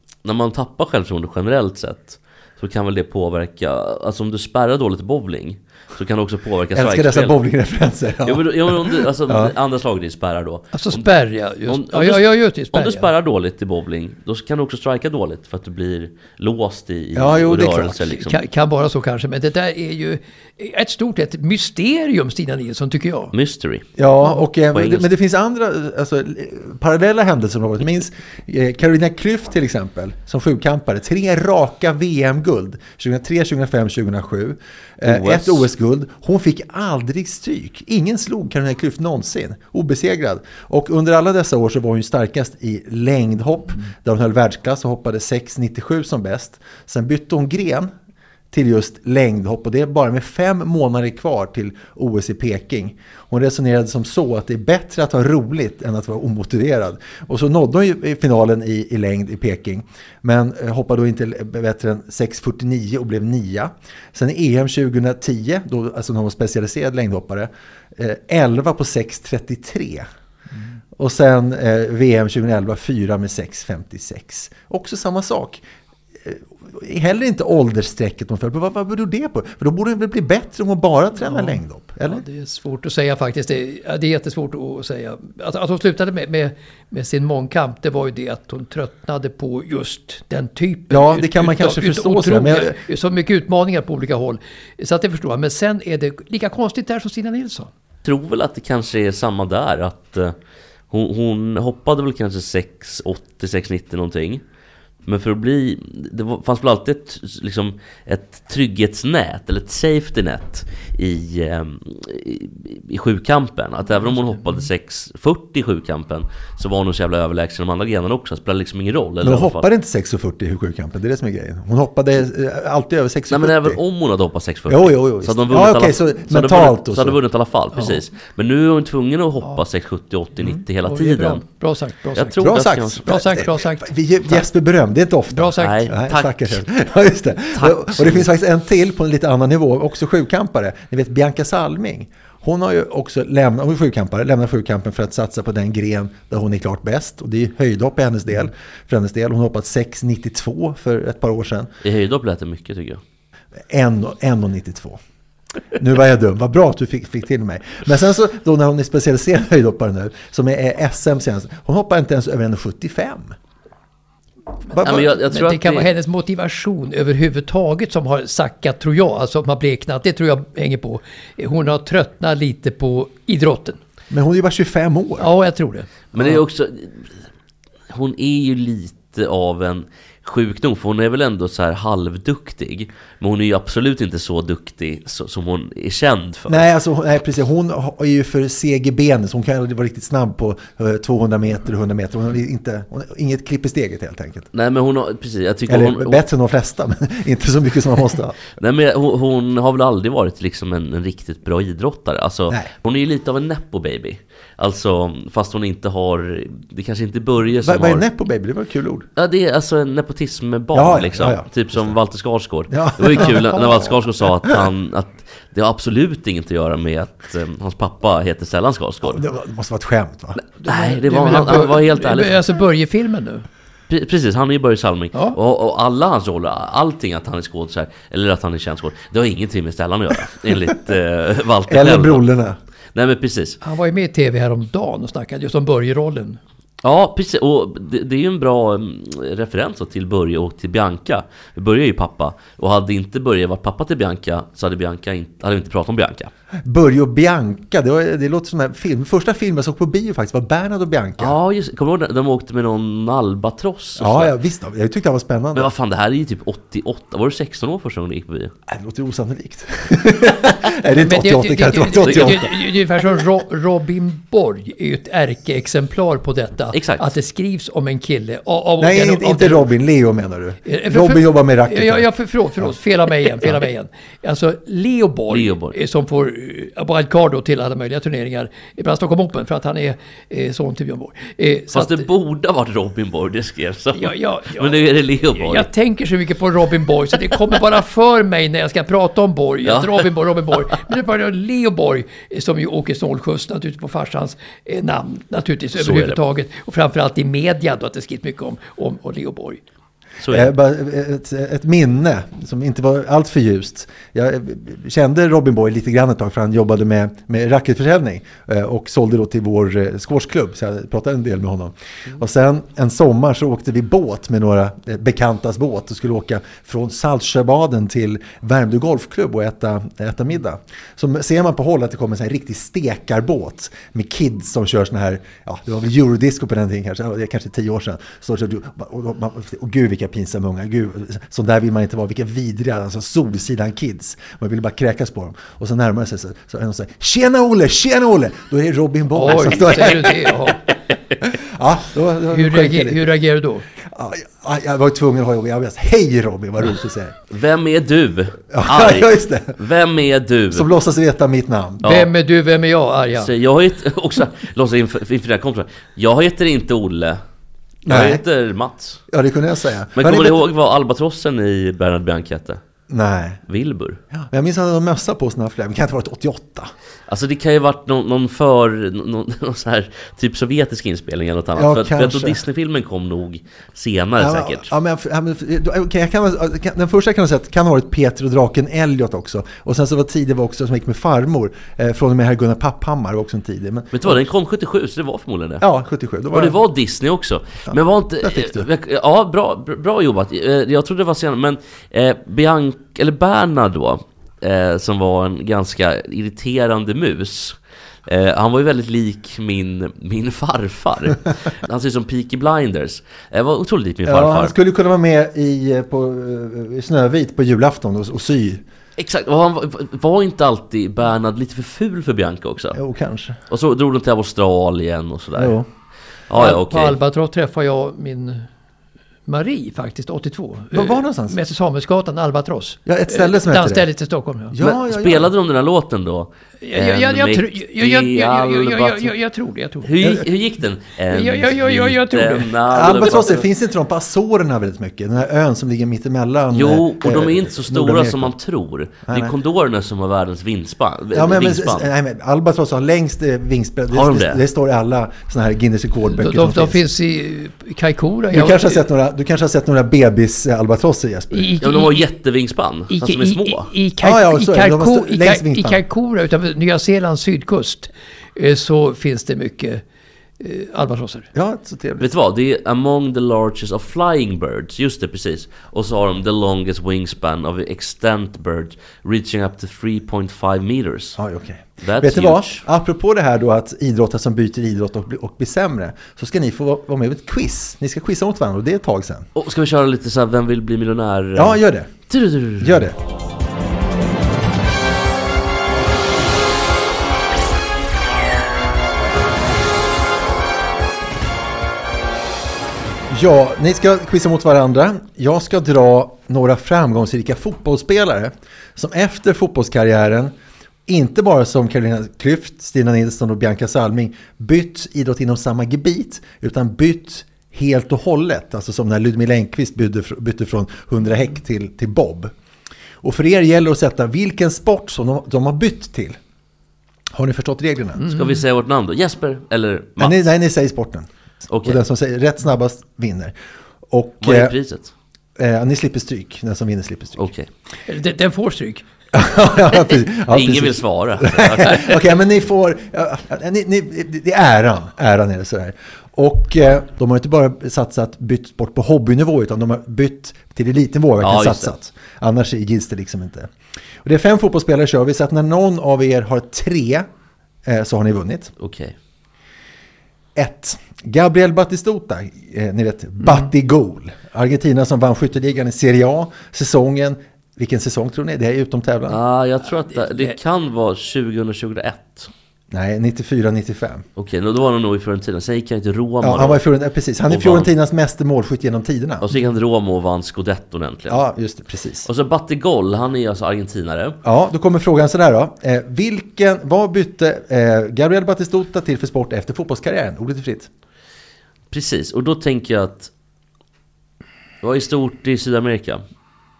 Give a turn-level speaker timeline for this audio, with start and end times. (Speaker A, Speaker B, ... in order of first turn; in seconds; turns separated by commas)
Speaker A: 0.2-7.4, Speaker B: 6.7-9.5, Speaker A: 8.2-11.1, Speaker C: 10.7-13.1, Speaker A: 11.7-18.4, Speaker B: 17.1-18.1, Speaker C: 18.2-23.3, Speaker A: 23.3-23.9, Speaker B: 24.0-47.9, Speaker A: 24.7-25.1, Speaker A: 35.0-35.6, Speaker B: 48.5-70.1, Speaker B: 71.0-75.6, Speaker B: 76.2-82.2, Speaker C: 81.1-97.7, Speaker B: 90.9-92.8, Speaker A: 98.0-100.3, Speaker A: 100.9-104.4, Speaker A: 105.0-119.7, Speaker B: 119.2-123.8, Speaker A: 123.3-131.4, Speaker B: 124.7-127.2, Speaker C: 130.8-133.9, Speaker A: 132.2-133.1, Speaker B: 132.4-151.7, Speaker C: 135.3-135.9, Speaker A: 135.6-136.6, Speaker A: 137.5-138.3, Speaker A: 151.8-153.0, Speaker B: 153.7-155.0, Speaker B: 155.7-163.4, Speaker C: 164.7-173.8, Speaker B: 164.7-165.1, Speaker A: 164.8-165.9, Speaker B: 174.1-175.3, Speaker C: 175.2-175.9, Speaker A: 176.1-177.1, Speaker A: 177.9-186.7, Speaker B: 186.5-194.5, Speaker A: 194.5-196.2, Speaker B: 195.7-198.4, Speaker A: 198.6-208.0, Speaker B: 207.6-209.1, Speaker A: 209.2-219.2, Speaker B: 210.7-211.9, Speaker B: 212.7-213.5, Speaker C: 213.2-213.8, Speaker B: 219.0-220.4, Speaker C: 220.6-223.4, Speaker A: 220.6-222.4, Speaker A: 223.9-232.2, Speaker B: 231.7-232.6, Speaker A: 232.9-233.6, Speaker C: 233.6-236.4, Speaker A: 236.8-246.3, Speaker B: 246.6-251.4, Speaker A: 251.2-254.3, Speaker B: 254.0-255.7, Speaker A: 255.5-258.5, Speaker B: 258.7-262.7, Speaker C: 261.0-269.7, Speaker A: 262.1-262.5, Speaker A: 266.7-267.1, Speaker B: 268.8-272.7, Speaker C: 270.6-282.0, Speaker A: 275.3-275.8, Speaker A: 281.7-285.7, Speaker C: 283.9-299.6, Speaker A: 289.6-290.1, Speaker A: 295.7-296.2, Speaker A: 300.2-300.5, Speaker B: 300.3-340.3, Speaker C: 339.1-340.6, Speaker B: 341.3-343.1, Speaker C: 342.3-343.6, Speaker B: 343.8-347.1, Speaker A: 347.3-350.7, Speaker B: 348.5-349.6, Speaker B: 350.5-351.9, Speaker C: 351.8-353.3, Speaker A: 353.1-357.2, Speaker B: 357.9-358.2, Speaker A: 357.9-359.0, Speaker B: 359.1-360.4, Speaker A: 359.9-362.6, Speaker B: 362.9-363.4, Speaker A: 363.5-364.0, Speaker B: 364.1-366.7, Speaker A: 367.1-374.7, Speaker B: 371.5-372.4, Speaker B: 374.2-384.2, Speaker A: 383.9-385.6, Speaker B: 385.6-386.6, Speaker A: 386.3-404.5, Speaker B: 387.7-388.7, Speaker B: 404.0-408.6, Speaker A: 409.0-412.8, Speaker B: 412.7-413.4, Speaker A: 413.5-415.6, Speaker B: 415.4-415.6, Speaker A: 416.3-417.0, Speaker C: 416.3-418.5, Speaker C: 419.3-424.6, Speaker B: 420.7-421.4, Speaker B: 422.9-423.9, Speaker B: 424.5-425.3, Speaker A: 424.6-429.1, Speaker C: 426.6-429.9, Speaker A: 429.8-433.5, Speaker C: 431.1-432.5, Speaker B: 432.7-438.3, Speaker A: 436.5-441.9, Speaker B: 439.1-439.3, Speaker B: 441.1-446.8, Speaker A: 443.9-444.4, Speaker C: 446.1-448.8, Speaker B: 448.3-451.5, Speaker C: 451.3-452.0, Speaker A: 451.6-453.7, Speaker C: 452.9-459.8, Speaker B: 454.0-455.8, Speaker C: 460.4-461.3, Speaker B: 461.3-462.1, Speaker A: 462.0-471.1, Speaker B: 471.2-479.3, Speaker A: 471.8-472.6, Speaker A: 479.4-482.9, Speaker B: 481.4-482.0, Speaker B: 482.6-483.0, Speaker B: 493.1-500.3, Speaker B: 500.9-512.3, Speaker B: 513.0-516.2, Speaker B: 517.1-518.1, Speaker A: 518.0-520.3, Speaker B: 520.0-521.1, Speaker A: 521.5-521.8, Speaker B: 521.6-523.4, Speaker B: 523.9-524.5, Speaker A: 524.2-524.9, Speaker B: 525.4-527.2, Speaker A: 527.2-527.5, Speaker C: 527.9-528.9, Speaker B: 529.1-543.5, Speaker A: 530.3-532.1, Speaker A: 541.2-541.7, Speaker B: 544.0-547.1, Speaker B: 547.6-548.5, Speaker A: 548.6-548.9, Speaker B: 550.4-559.2, Speaker A: 559.1-562.3, Speaker B: 562.7-564.1, Speaker A: 564.1-566.6, Speaker B: 566.2-569.3, Speaker A: 567.3-567.7, Speaker A: 569.2-571.2, Speaker B: 571.1-572.1, Speaker A: 572.1-574.2, Speaker B: 574.2-580.7, Speaker A: 581.7-583.1, Speaker A: 584.6-586.0